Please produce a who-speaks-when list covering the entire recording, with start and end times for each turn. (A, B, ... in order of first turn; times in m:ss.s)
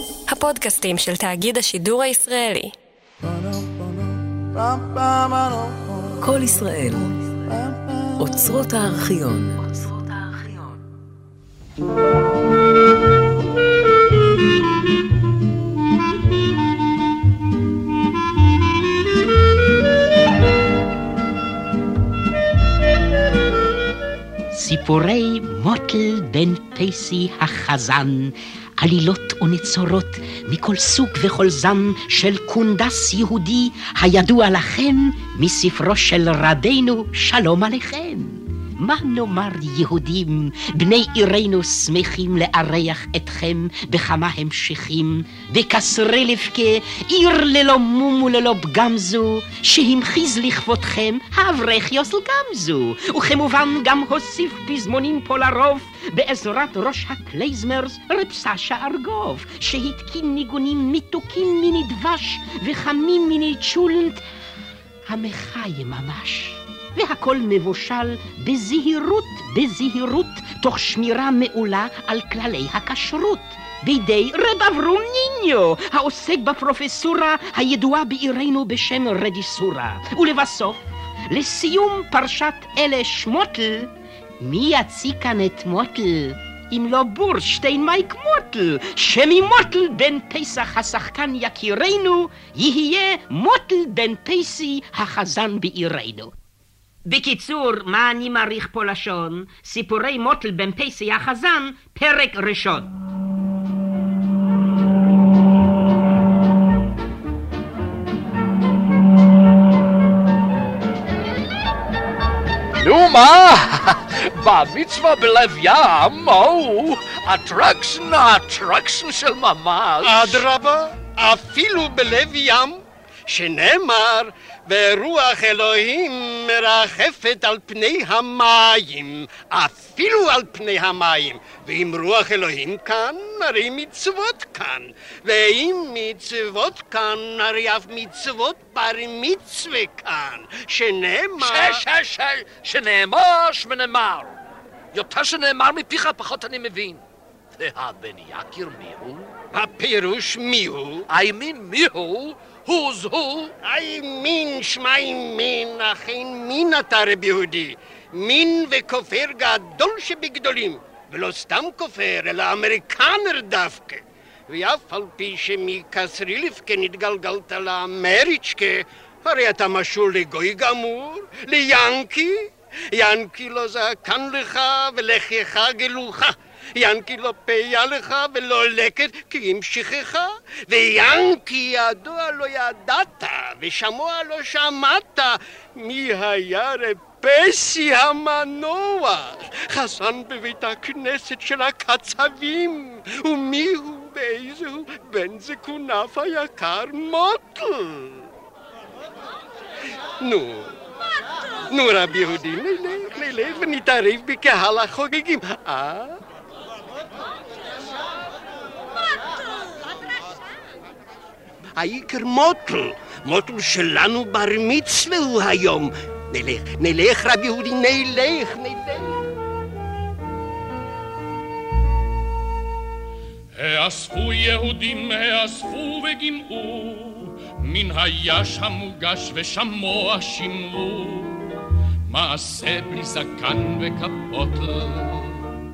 0:00.3-0:02.7 A
0:06.2-0:07.2 B
0:08.1-0:10.6 B
0:24.5-1:04.2 C
1:05.1-1:36.3 C
1:37.0-1:42.9 C
1:52.8-2:00.4 D
2:00.0-2:21.8 E
2:21.4-2:24.4 D
2:24.9-2:27.0 D
2:27.6-2:29.3 D
2:29.5-2:31.0 E
2:31.1-2:33.5 D
2:33.6-3:18.3 E
3:20.2-3:20.7 E
3:21.7-3:26.2 E
3:31.8-3:39.2 E
3:43.5-3:55.6 F